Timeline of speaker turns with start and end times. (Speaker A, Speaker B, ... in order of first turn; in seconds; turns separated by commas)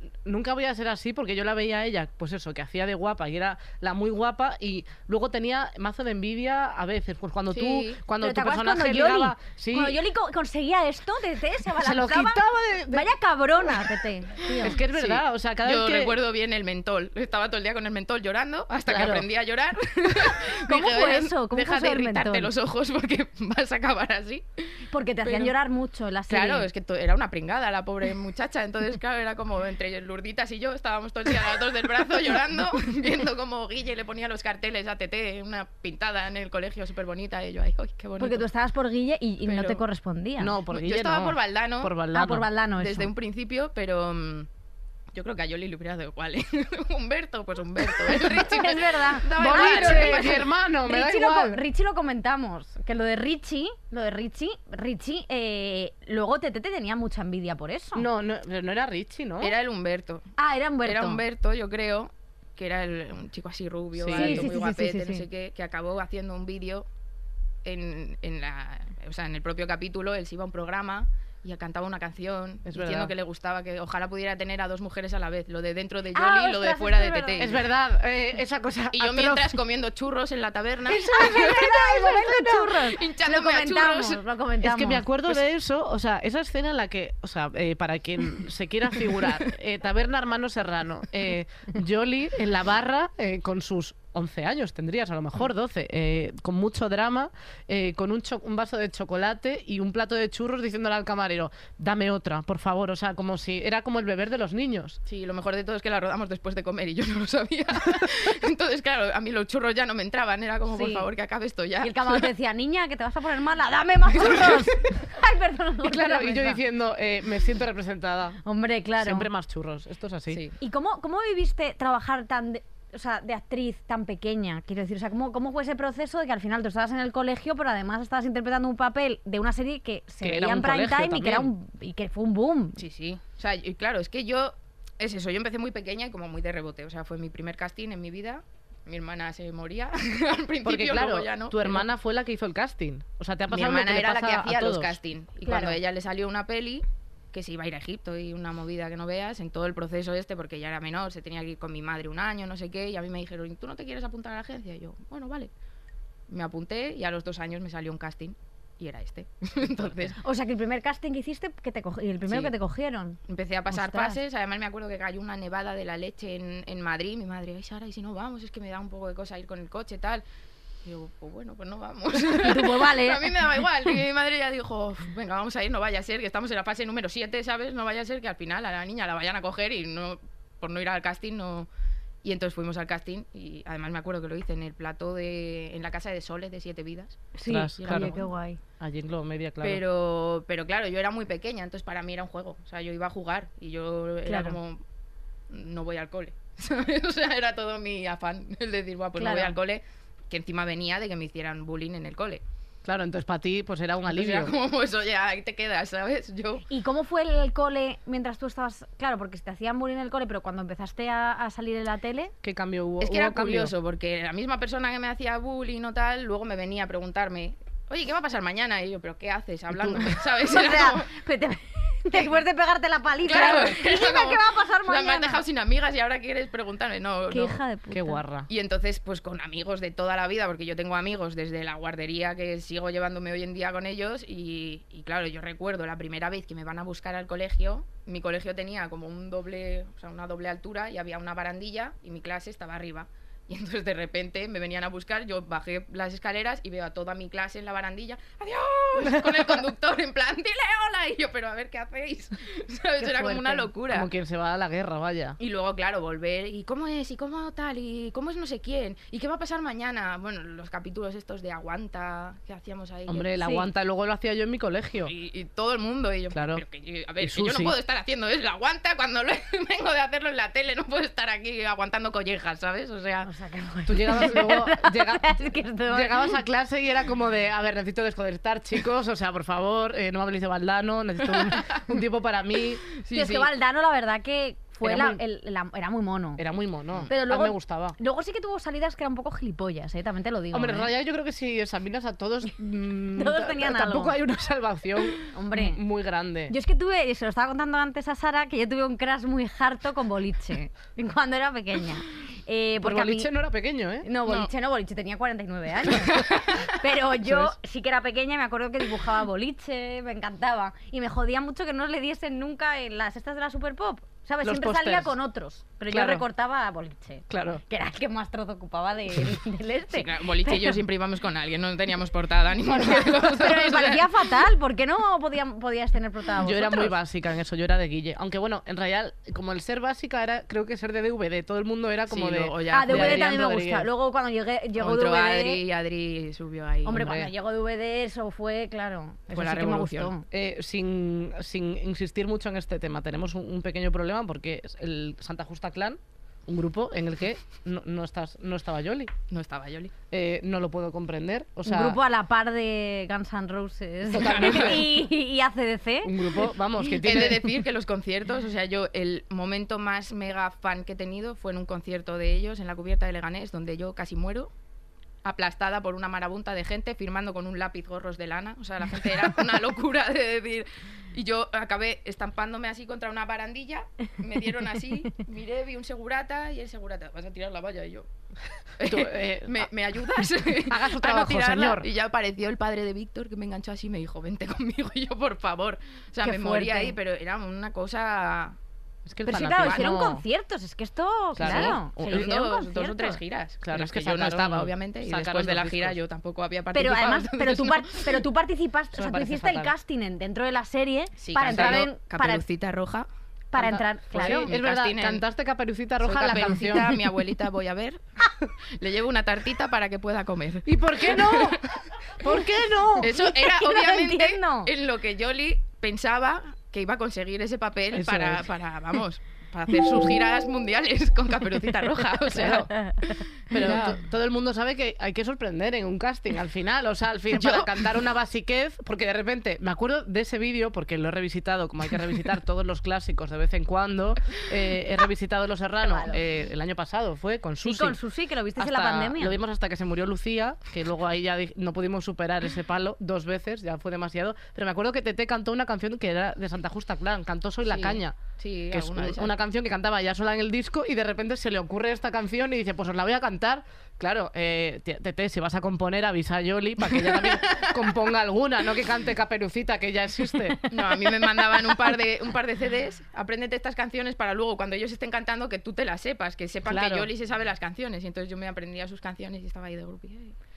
Speaker A: 0.2-10.0, Speaker B: 7.5-8.0, Speaker C: 8.2-14.8, Speaker A: 11.8-13.1, Speaker A: 14.6-16.2, Speaker B: 14.9-25.5, Speaker A: 18.9-19.3, Speaker C: 20.6-22.5, Speaker C: 24.9-26.7, Speaker B: 26.3-38.5, Speaker C: 38.2-40.6, Speaker B: 39.4-39.8, Speaker A: 40.4-42.5, Speaker B: 40.7-41.9, Speaker C: 42.1-43.1, Speaker B: 42.8-44.5, Speaker B: 45.1-50.5, Speaker C: 48.0-58.1, Speaker A: 49.4-51.6, Speaker A: 57.9-59.5, Speaker B: 59.4-60.3, Speaker C: 60.4-61.2, Speaker B: 60.8-66.8, Speaker A: 64.0-64.5, Speaker C: 64.1-65.2, Speaker B: 67.6-77.6, Speaker A: 72.7-73.1, Speaker C: 76.1-77.5, Speaker A: 77.4-79.6, Speaker B: 78.9-84.2, Speaker A: 80.9-82.7, Speaker C: 81.0-85.0, Speaker A: 84.6-105.0, Speaker B: 105.0-112.3, Speaker C: 110.7-111.1, Speaker C: 111.8-116.6, Speaker A: 114.2-114.6, Speaker A: 115.8-118.4, Speaker C: 118.4-119.3, Speaker A: 119.0-120.4, Speaker B: 120.3-120.5, Speaker C: 120.6-132.8, Speaker A: 130.2-131.5, Speaker B: 132.8-141.8, Speaker A: 140.6-145.0, Speaker B: 143.5-155.5, Speaker C: 145.4-145.8, Speaker B: 156.3-160.2, Speaker C: 160.2-163.2, Speaker B: 163.3-170.2, Speaker C: 163.7-164.2, Speaker B: 170.8-181.7, Speaker C: 172.4-173.3, Speaker B: 182.2-188.3, Speaker C: 187.4-188.6, Speaker A: 187.4-188.2, Speaker A: 188.8-189.8, Speaker B: 189.6-194.8, Speaker C: 194.2-194.6, Speaker B: 195.5-202.4, Speaker C: 199.2-199.6, Speaker A: 202.8-204.5, Speaker B: 204.1-206.6, Speaker C: 206.7-212.3, Speaker A: 212.4-213.7, Speaker B: 213.0-221.1, Speaker A: 219.8-220.1, Speaker C: 220.4-225.4, Speaker B: 223.2-227.6, Speaker C: 227.3-228.2, Speaker A: 227.9-228.5, Speaker B: 228.5-254.1, Speaker A: 249.0-249.4, Speaker C: 253.0-253.7, Speaker A: 253.9-255.4, Speaker B: 255.4-263.3, Speaker A: 263.1-265.1, Speaker C: 263.4-263.7, Speaker B: 265.0-273.3, Speaker A: 266.3-266.6, Speaker A: 267.2-267.8, Speaker C: 273.2-276.4, Speaker A: 273.9-282.8, Speaker B: 281.3-281.8, Speaker B: 282.9-283.5, Speaker C: 283.1-286.4, Speaker A: 284.8-285.2, Speaker A: 286.4-287.9, Speaker C: 287.1-290.9, Speaker A: 290.5-296.5, Speaker C: 293.1-294.2, Speaker C: 295.3-295.8, Speaker C: 296.5-303.3, Speaker A: 302.8-304.1, Speaker C: 304.0-320.8, Speaker B: 306.1-306.7, Speaker A: 307.2-307.5, Speaker A: 314.4-315.1, Speaker A: 315.9-316.2, Speaker A: 317.3-317.6, Speaker B: 319.9-324.3, Speaker C: 322.7-326.9, Speaker A: 326.4-333.9, Speaker B: 332.1-333.3, Speaker C: 332.7-335.6, Speaker B: 334.8-337.2, Speaker C: 336.8-340.3, Speaker A: 336.9-337.3, Speaker B: 339.3-340.1, Speaker A: 340.3-349.1, Speaker B: 349.3-349.9, Speaker A: 350.1-352.0, Speaker C: 351.6-356.9, Speaker A: 354.1-354.9, Speaker B: 354.1-354.9, Speaker A: 356.0-357.5, Speaker B: 357.0-364.5, Speaker B: 365.2-378.1, Speaker B: 378.8-388.6, Speaker A: 378.8-379.7, Speaker A: 380.6-381.9, Speaker C: 386.2-386.9, Speaker A: 389.1-390.2, Speaker C: 389.2-393.2, Speaker B: 389.6-389.8, Speaker A: 391.3-392.3, Speaker B: 391.4-398.2, Speaker A: 393.6-396.0, Speaker C: 396.7-402.4, Speaker A: 398.9-399.7, Speaker B: 401.2-403.1, Speaker A: 401.5-401.9, Speaker C: 403.5-404.5, Speaker A: 403.6-407.0, Speaker B: 404.1-405.2, Speaker B: 406.0-411.8, Speaker A: 410.6-411.7, Speaker A: 412.2-413.1, Speaker C: 412.8-414.7, Speaker B: 413.0-423.9, Speaker A: 417.9-418.5, Speaker C: 422.7-423.1, Speaker A: 423.5-438.0, Speaker B: 427.3-427.7, Speaker C: 435.8-436.2, Speaker C: 437.6-439.4, Speaker A: 438.6-448.1, Speaker B: 447.6-449.3, Speaker A: 448.7-460.6, Speaker B: 456.9-457.9, Speaker B: 460.7-470.3, Speaker A: 466.6-467.1